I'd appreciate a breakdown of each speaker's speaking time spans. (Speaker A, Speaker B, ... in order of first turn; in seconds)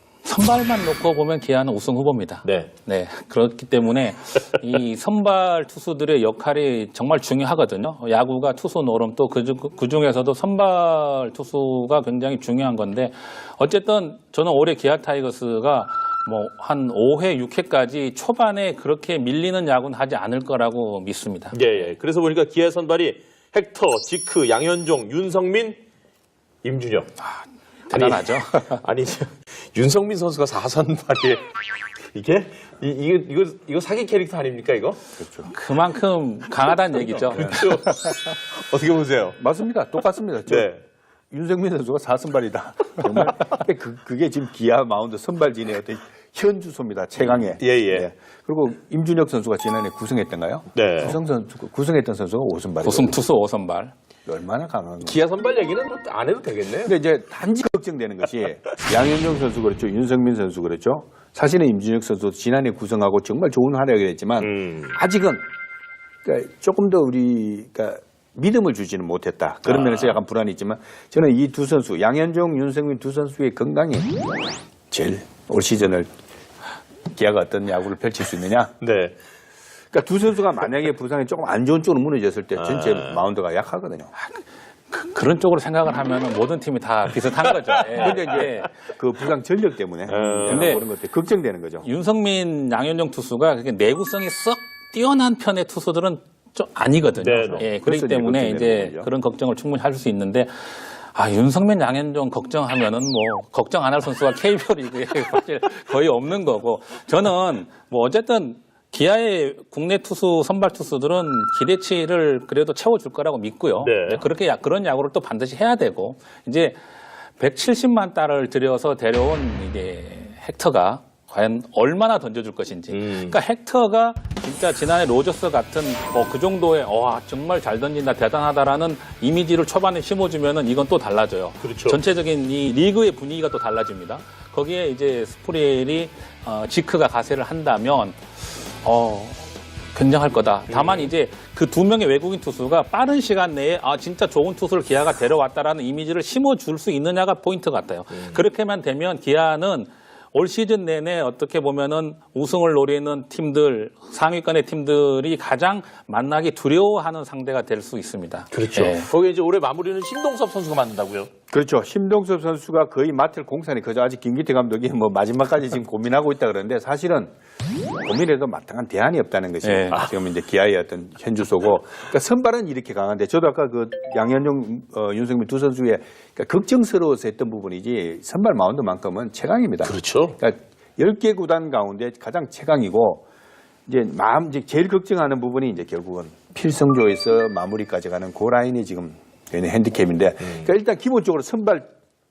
Speaker A: 0.2-21.6, 27.2-28.8, 35.5-37.6, 52.8-53.9, 84.2-88.7, 90.5-90.8, 91.8-116.8, 117.4-138.2, 138.8-139.4, 139.9-159.1, 169.6-170.0
Speaker B: 2.4-2.7, 21.5-25.8, 26.6-27.1, 27.9-31.4, 32.1-35.0, 37.2-39.4, 40.5-40.8, 47.3-48.1, 50.7-51.2, 55.0-56.9, 64.4-65.0, 69.7-70.2, 78.8-79.2, 82.5-83.2, 87.5-88.3, 90.1-90.8, 97.2-97.7, 113.8-114.2, 122.9-123.4, 131.6-132.0, 140.7-141.1, 148.1-148.4, 158.5-161.3, 179.8-180.4, 190.4-190.7
Speaker C: 35.2-35.5, 39.4-40.7, 41.3-53.2, 54.2-55.2, 56.8-65.5, 66.2-74.1, 74.9-76.1, 77.1-78.7, 79.9-84.1, 88.0-91.9, 97.8-99.1, 161.5-167.3, 168.0-183.2, 183.8-191.9